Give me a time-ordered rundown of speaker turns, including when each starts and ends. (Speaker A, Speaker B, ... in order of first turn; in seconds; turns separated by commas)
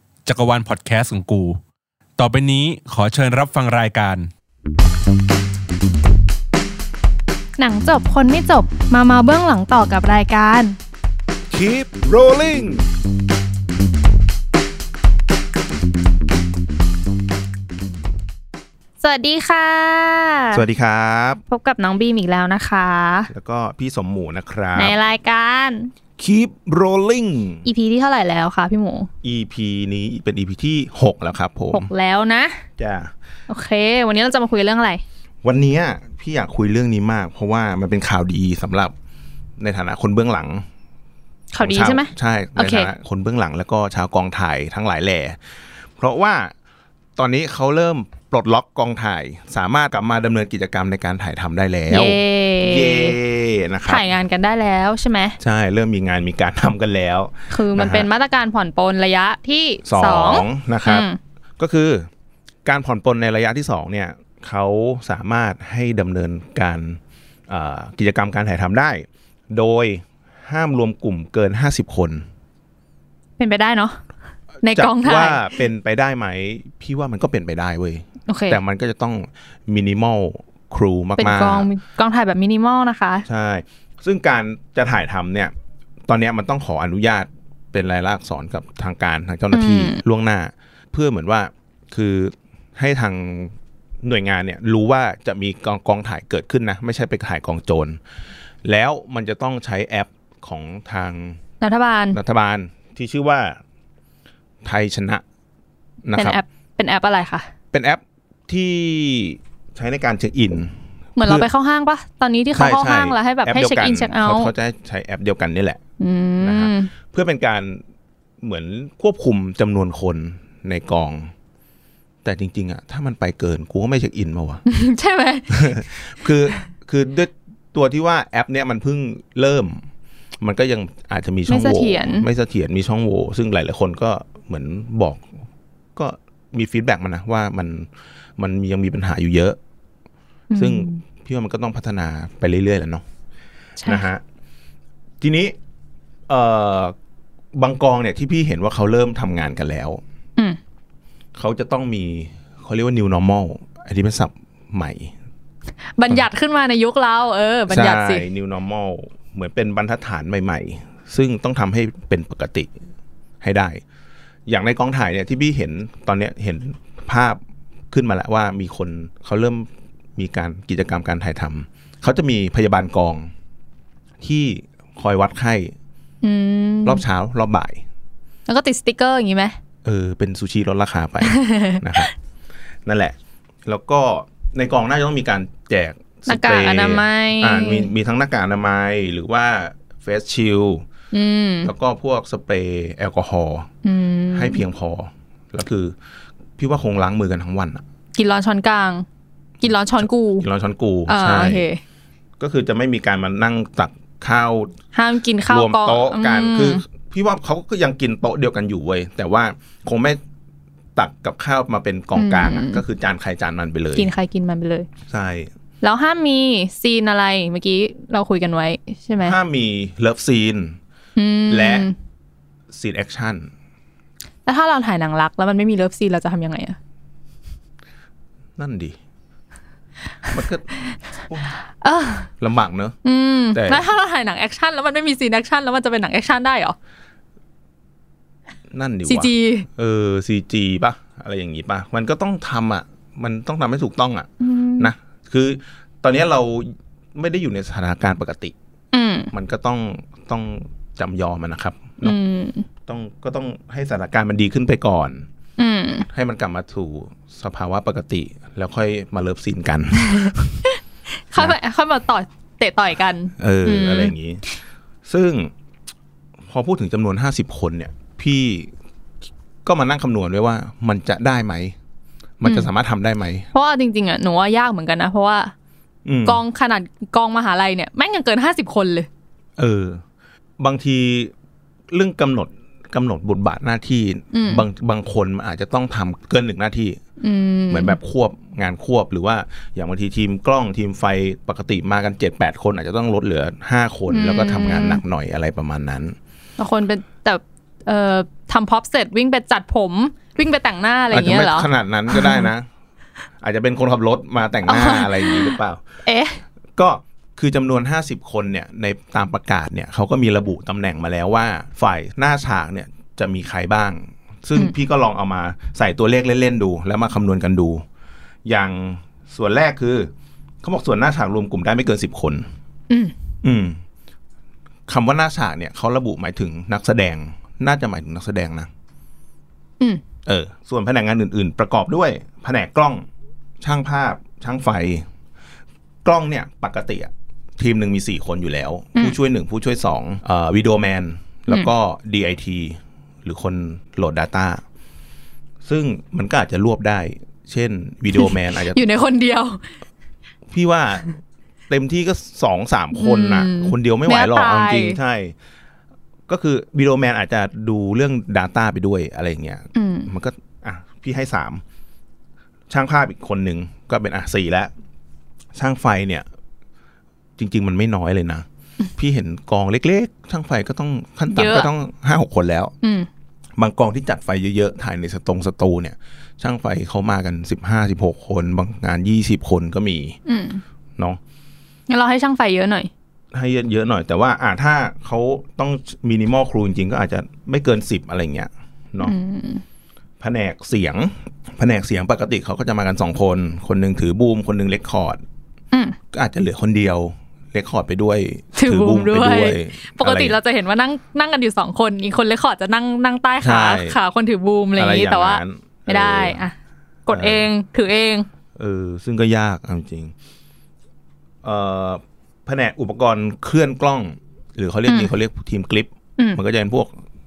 Speaker A: 0.3-1.6, Speaker A: 2.2-4.3, Speaker B: 7.6-10.8, Speaker C: 11.5-12.8, Speaker B: 19.0-20.6, Speaker C: 20.5-21.4, Speaker B: 21.5-23.3, Speaker C: 23.3-24.9, Speaker B: 24.8-25.9, Speaker C: 26.2-27.7, Speaker B: 27.6-29.1, Speaker C: 29.2-31.9, Speaker B: 31.7-32.6, Speaker C: 32.8-33.1, Speaker B: 33.5-35.0, Speaker C: 35.4-38.9, Speaker C: 39.6-40.6, Speaker B: 41.5-42.9, Speaker C: 41.6-45.4, Speaker C: 46.0-46.5, Speaker C: 47.2-54.0, Speaker B: 51.9-53.2, Speaker B: 53.9-55.4, Speaker C: 55.4-58.1, Speaker B: 57.5-61.2, Speaker C: 59.9-61.1, Speaker C: 61.6-62.1, Speaker C: 62.6-72.2, Speaker B: 73.4-74.0, Speaker B: 74.6-75.5, Speaker C: 74.6-81.7, Speaker B: 78.3-78.6, Speaker B: 81.2-83.2, Speaker C: 83.3-85.5, Speaker C: 86.1-98.0, Speaker B: 89.5-90.0, Speaker C: 98.6-101.4, Speaker B: 101.6-102.2, Speaker C: 102.1-103.6, Speaker C: 104.6-105.2, Speaker C: 106.0-106.4, Speaker B: 106.2-107.5, Speaker C: 107.7-111.5, Speaker B: 111.2-114.5, Speaker C: 112.5-115.8, Speaker B: 116.0-116.9, Speaker C: 116.4-117.8, Speaker C: 118.4-121.3, Speaker C: 122.2-124.6, Speaker B: 124.7-125.8, Speaker C: 125.5-129.8, Speaker C: 130.4-135.2, Speaker B: 131.5-132.3, Speaker C: 136.0-139.6, Speaker B: 140.5-141.0, Speaker C: 140.6-143.0, Speaker C: 143.8-144.2, Speaker C: 145.2-145.6, Speaker C: 146.3-146.9, Speaker C: 147.6-150.0, Speaker C: 151.4-155.1, Speaker B: 156.0-158.3, Speaker C: 157.7-162.7, Speaker C: 163.4-163.8, Speaker C: 164.5-167.4, Speaker C: 167.9-173.3, Speaker C: 174.2-175.7, Speaker B: 176.2-177.0, Speaker C: 176.8-177.8, Speaker B: 178.5-179.6, Speaker C: 179.8-182.1, Speaker B: 181.2-182.1, Speaker C: 182.9-183.2, Speaker C: 183.7-190.9, Speaker B: 186.3-187.9, Speaker B: 191.1-191.7, Speaker C: 191.6-193.7, Speaker B: 193.8-194.6, Speaker C: 194.3-195.9, Speaker C: 196.6-197.8, Speaker B: 198.2-199.1, Speaker B: 199.6-200.5, Speaker C: 200.0-201.7, Speaker B: 201.1-201.8, Speaker C: 202.4-204.7, Speaker B: 204.9-206.8, Speaker C: 205.5-210.2, Speaker C: 211.0-214.1, Speaker B: 212.2-212.8, Speaker B: 213.9-214.9, Speaker C: 215.1-215.5, Speaker B: 215.8-219.4, Speaker C: 219.2-220.8, Speaker B: 221.2-221.9, Speaker C: 221.5-221.9, Speaker C: 222.7-223.5, Speaker B: 224.5-226.8, Speaker C: 228.6-229.0, Speaker C: 230.3-230.7, Speaker C: 231.3-231.6, Speaker B: 231.8-232.3, Speaker C: 232.4-233.0, Speaker B: 233.0-236.8, Speaker C: 233.5-233.8, Speaker C: 238.7-248.5, Speaker B: 239.1-239.7, Speaker B: 244.4-244.9, Speaker B: 248.9-249.3, Speaker C: 249.3-252.2, Speaker B: 252.0-252.7, Speaker C: 252.9-255.3, Speaker B: 255.6-256.1, Speaker C: 256.1-260.6, Speaker B: 260.1-260.8, Speaker B: 261.3-264.1, Speaker C: 263.4-264.4, Speaker C: 265.1-265.5, Speaker C: 266.5-268.7, Speaker C: 269.6-271.8, Speaker C: 272.4-273.5, Speaker B: 272.4-272.7, Speaker B: 273.5-275.5, Speaker C: 276.1-276.4, Speaker B: 276.3-279.1, Speaker C: 279.6-280.0, Speaker C: 280.6-281.3, Speaker C: 281.9-287.0, Speaker B: 284.3-284.6, Speaker B: 287.2-288.0, Speaker C: 287.7-296.2, Speaker B: 294.1-295.0, Speaker B: 296.6-302.5, Speaker C: 301.1-302.7, Speaker C: 303.4-305.8, Speaker B: 304.7-306.4, Speaker C: 306.8-317.8, Speaker C: 318.5-320.1, Speaker C: 320.6-322.5, Speaker B: 322.9-323.1, Speaker C: 323.4-323.8, Speaker C: 324.9-328.7, Speaker C: 330.3-333.1, Speaker C: 333.6-335.1, Speaker C: 336.1-344.6, Speaker C: 345.6-348.8, Speaker B: 348.1-349.6, Speaker C: 350.5-351.2, Speaker C: 351.7-355.3, Speaker B: 353.0-355.0, Speaker C: 356.3-361.6, Speaker B: 359.8-360.1, Speaker C: 362.7-364.7, Speaker C: 365.6-366.2, Speaker C: 367.4-368.4, Speaker C: 369.0-372.7, Speaker B: 371.3-371.7, Speaker B: 372.8-373.1, Speaker C: 373.6-380.2, Speaker B: 380.3-380.6, Speaker B: 381.9-382.9, Speaker C: 383.3-389.1, Speaker B: 389.0-389.6, Speaker C: 390.2-395.2, Speaker B: 395.7-396.0, Speaker C: 396.1-400.4, Speaker B: 398.6-406.6, Speaker C: 403.4-404.0, Speaker C: 404.8-406.4, Speaker B: 407.1-408.3, Speaker C: 407.1-407.5, Speaker C: 408.6-410.1, Speaker C: 411.4-416.9